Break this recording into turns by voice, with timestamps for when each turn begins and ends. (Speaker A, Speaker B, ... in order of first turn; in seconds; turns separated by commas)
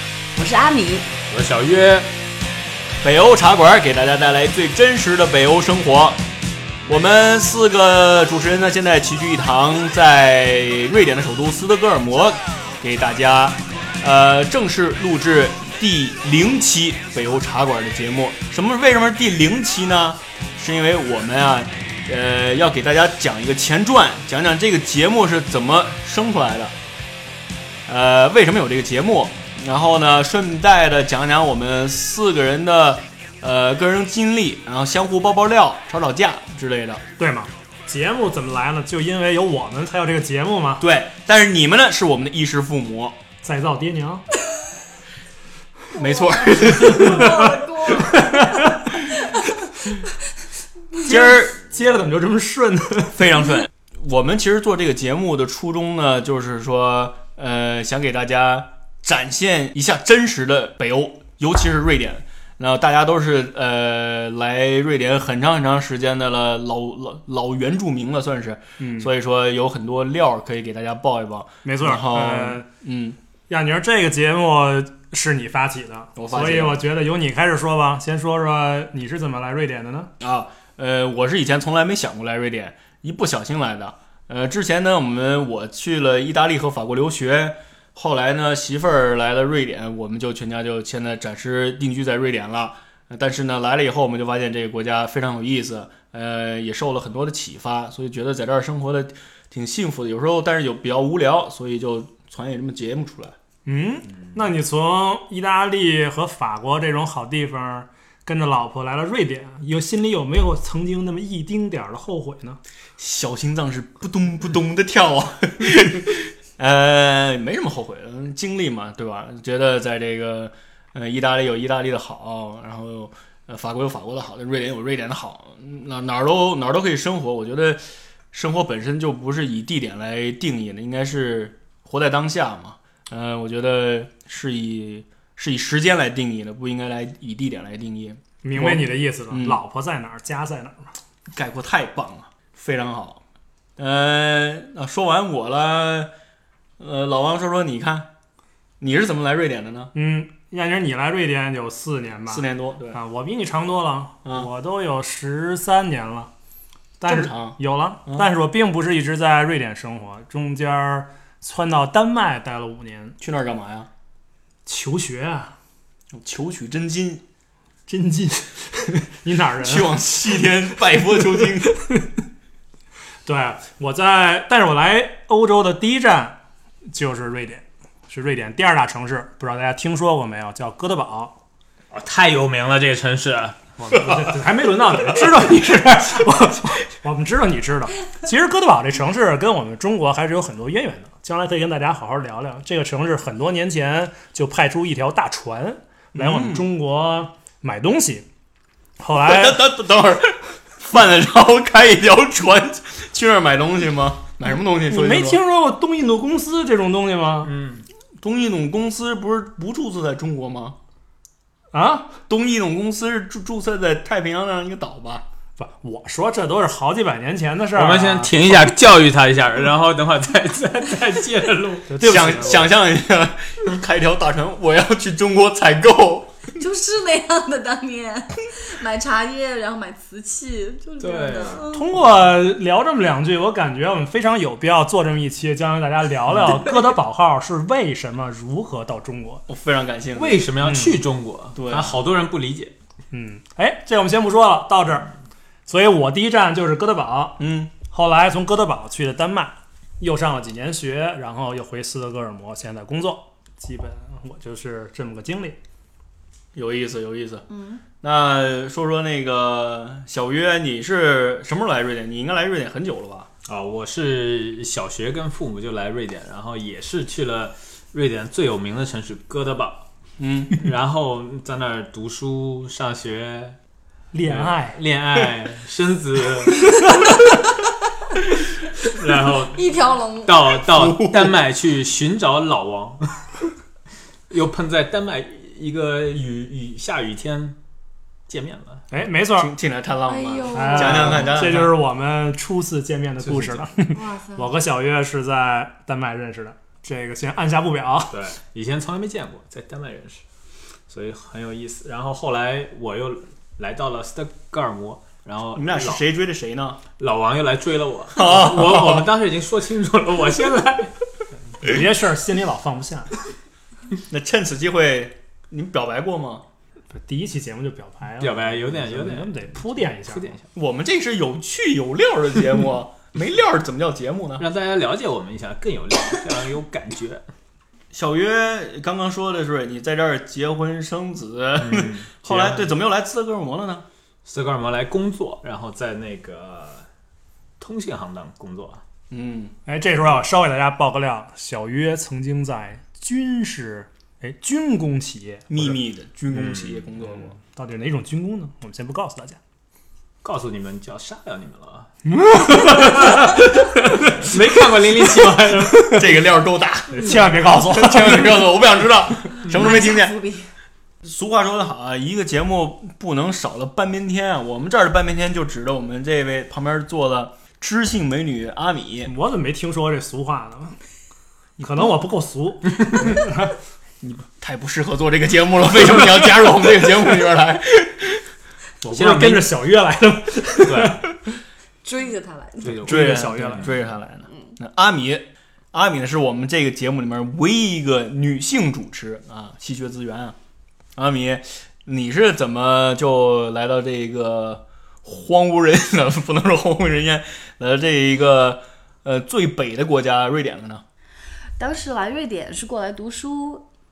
Speaker A: 0.3-1.1, Speaker B: 1.3-2.1, Speaker C: 3.0-6.2, Speaker C: 6.9-26.7, Speaker C: 27.9-37.0, Speaker D: 37.2-40.8, Speaker C: 40.8-43.2, Speaker D: 43.4-44.2, Speaker C: 45.9-47.3, Speaker A: 46.0-49.6, Speaker D: 47.0-47.4, Speaker D: 48.2-48.9, Speaker D: 51.0-53.3, Speaker C: 51.1-51.6, Speaker C: 53.1-73.2, Speaker D: 68.8-69.1, Speaker D: 71.6-72.7, Speaker D: 73.5-80.1, Speaker C: 76.2-76.9, Speaker C: 80.2-103.4, Speaker D: 103.7-112.6, Speaker C: 113.0-139.6, Speaker D: 138.4-140.9, Speaker C: 141.3-143.2, Speaker C: 143.8-146.1, Speaker C: 146.8-148.1, Speaker C: 148.8-149.9, Speaker D: 149.9-156.3, Speaker C: 152.3-153.0, Speaker D: 157.0-163.2, Speaker C: 157.1-158.3, Speaker C: 163.2-163.9, Speaker D: 164.7-165.6, Speaker C: 166.1-167.2, Speaker D: 167.9-170.0, Speaker C: 169.6-171.8, Speaker D: 173.3-176.4, Speaker D: 176.9-181.4, Speaker B: 181.9-184.2, Speaker D: 183.8-198.3, Speaker C: 196.2-196.7, Speaker D: 199.0-199.6, Speaker C: 199.2-205.4, Speaker D: 204.9-207.5, Speaker B: 207.4-207.8, Speaker C: 208.2-210.8, Speaker D: 211.7-212.1, Speaker C: 212.3-215.2, Speaker D: 215.6-218.4, Speaker B: 217.7-222.6, Speaker D: 221.9-222.7, Speaker C: 222.0-226.4, Speaker A: 226.6-231.9, Speaker B: 231.0-231.7, Speaker D: 231.7-239.4, Speaker C: 239.5-240.5, Speaker B: 240.2-242.7, Speaker D: 240.6-241.0, Speaker C: 241.6-242.0, Speaker D: 243.1-245.1, Speaker D: 245.7-255.6, Speaker C: 247.4-247.7, Speaker C: 256.6-257.5, Speaker A: 257.5-257.8, Speaker C: 258.0-263.3, Speaker B: 263.5-269.9, Speaker C: 270.2-270.6, Speaker B: 270.6-273.6, Speaker D: 274.1-274.8, Speaker B: 274.2-276.6, Speaker B: 278.9-279.7, Speaker A: 279.5-280.4, Speaker B: 280.2-283.4, Speaker C: 280.7-281.4, Speaker B: 284.3-287.6, Speaker B: 288.3-288.8, Speaker D: 288.9-289.5, Speaker C: 289.3-291.7, Speaker A: 290.1-291.2, Speaker D: 290.5-298.2, Speaker B: 293.3-293.7, Speaker A: 293.9-294.5, Speaker B: 298.1-300.2, Speaker B: 300.9-306.0, Speaker C: 305.5-306.8, Speaker B: 307.0-311.0, Speaker C: 308.1-309.1, Speaker D: 311.6-313.2, Speaker C: 314.1-316.4, Speaker D: 316.9-320.4, Speaker B: 318.2-320.4, Speaker C: 320.5-324.5, Speaker B: 324.4-327.3, Speaker C: 327.9-333.9, Speaker B: 331.6-332.7, Speaker B: 334.3-336.9, Speaker B: 337.6-338.8, Speaker C: 339.1-339.6, Speaker D: 339.7-345.8, Speaker C: 345.5-347.4, Speaker B: 346.3-346.9, Speaker D: 347.4-349.4, Speaker B: 350.2-351.9, Speaker D: 352.1-354.1, Speaker B: 352.7-353.3, Speaker B: 354.0-355.9, Speaker C: 355.8-360.1, Speaker D: 356.9-358.5, Speaker A: 359.5-360.5, Speaker C: 361.0-369.1, Speaker D: 369.1-370.8, Speaker D: 371.6-373.6, Speaker C: 374.0-378.2, Speaker D: 378.8-381.1, Speaker B: 378.9-379.5, Speaker B: 380.6-381.0, Speaker A: 381.8-382.7, Speaker B: 382.6-383.8, Speaker D: 382.8-383.8, Speaker C: 382.9-390.4, Speaker A: 384.3-384.5, Speaker C: 391.0-400.8, Speaker A: 401.6-403.7